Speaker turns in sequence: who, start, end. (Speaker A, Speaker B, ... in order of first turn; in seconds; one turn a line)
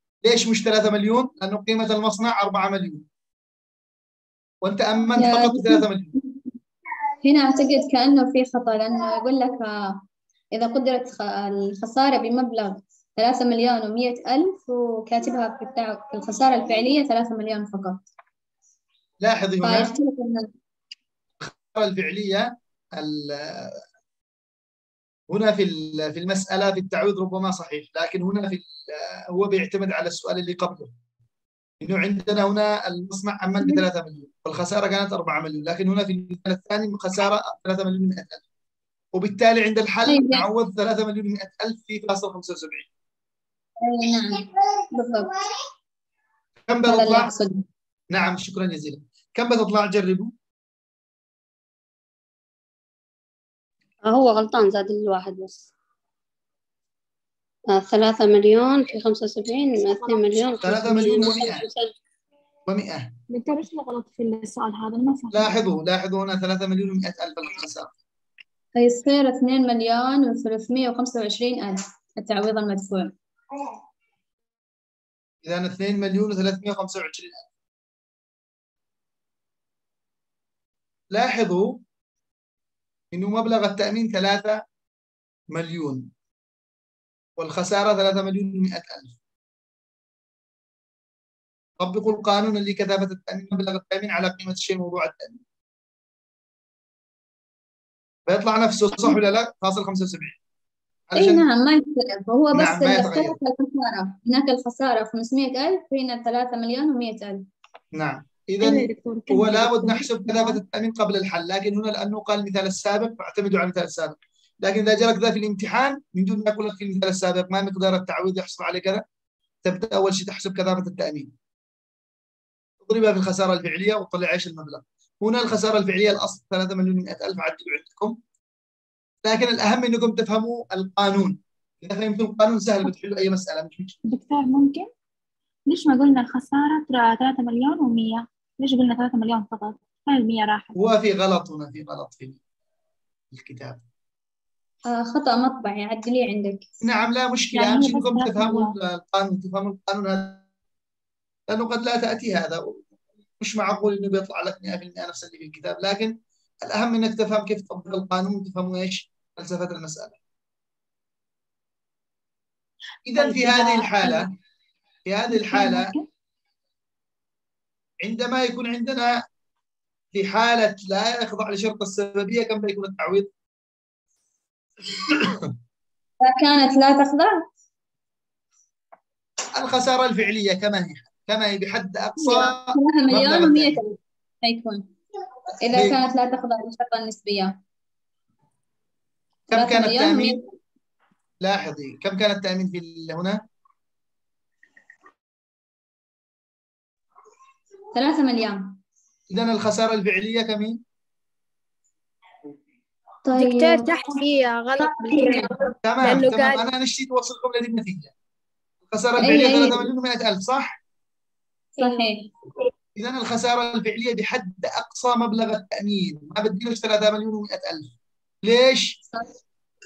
Speaker A: 0.2-3.0
Speaker A: 4.6-6.1
Speaker B: 5.2-6.4
Speaker B: 7.2-10.0
Speaker B: 10.5-18.1
Speaker A: 19.2-19.9
Speaker B: 19.6-20.5
Speaker A: 21.4-23.8
Speaker A: 25.3-30.9
Speaker A: 31.8-38.4
Speaker A: 39.1-42.9
Speaker B: 40.1-40.5
Speaker B: 43.8-45.6
Speaker A: 46.7-47.3
Speaker B: 46.9-47.6
Speaker A: 48.1-50.3
Speaker C: 54.0-55.7
Speaker C: 57.7-61.9
Speaker D: 59.9-60.6
Speaker A: 60.6-61.7
Speaker A: 62.7-63.1
Speaker D: 63.3-65.5
Speaker A: 65.3-67.9
Speaker B: 68.8-73.1
Speaker A: 75.4-77.5
Speaker A: 81.1-81.8
Speaker A: 83.1-84.6
Speaker A: 85.5-86.1
Speaker A: 87.4-89.2
Speaker A: 91.8-95.4
Speaker A: 98.3-100.4
Speaker A: 101.1-101.5
Speaker B: 101.2-107.5
Speaker A: 102.5-103.4
Speaker A: 108.0-119.0
Speaker D: 108.6-110.6
Speaker A: 119.7-121.3
Speaker A: 122.8-128.2
Speaker A: 129.2-134.0
Speaker D: 134.1-134.9
Speaker D: 135.7-140.8
Speaker A: 140.8-142.4
Speaker A: 143.3-143.8
Speaker B: 144.9-146.7
Speaker A: 146.8-150.4
Speaker D: 147.5-148.8
Speaker A: 151.5-152.8
Speaker A: 153.4-160.2
Speaker A: 163.1-164.3
Speaker D: 163.2-164.3
Speaker A: 165.1-165.9
Speaker D: 165.3-166.1
Speaker A: 168.0-169.2
Speaker A: 170.1-173.3
Speaker A: 174.9-175.5
Speaker B: 176.2-177.5
Speaker A: 179.5-183.8
Speaker B: 182.2-184.9
Speaker B: 185.6-187.6
Speaker A: 185.7-186.0
Speaker A: 189.5-190.4
Speaker B: 189.5-190.4
Speaker A: 191.4-193.4
Speaker B: 197.9-198.8
Speaker A: 199.3-200.8
Speaker B: 203.3-204.2
Speaker E: 203.3-206.7
Speaker B: 204.8-205.6
Speaker A: 205.8-208.1
Speaker A: 208.9-210.8
Speaker B: 209.2-209.9
Speaker B: 211.8-212.3
Speaker A: 212.9-219.0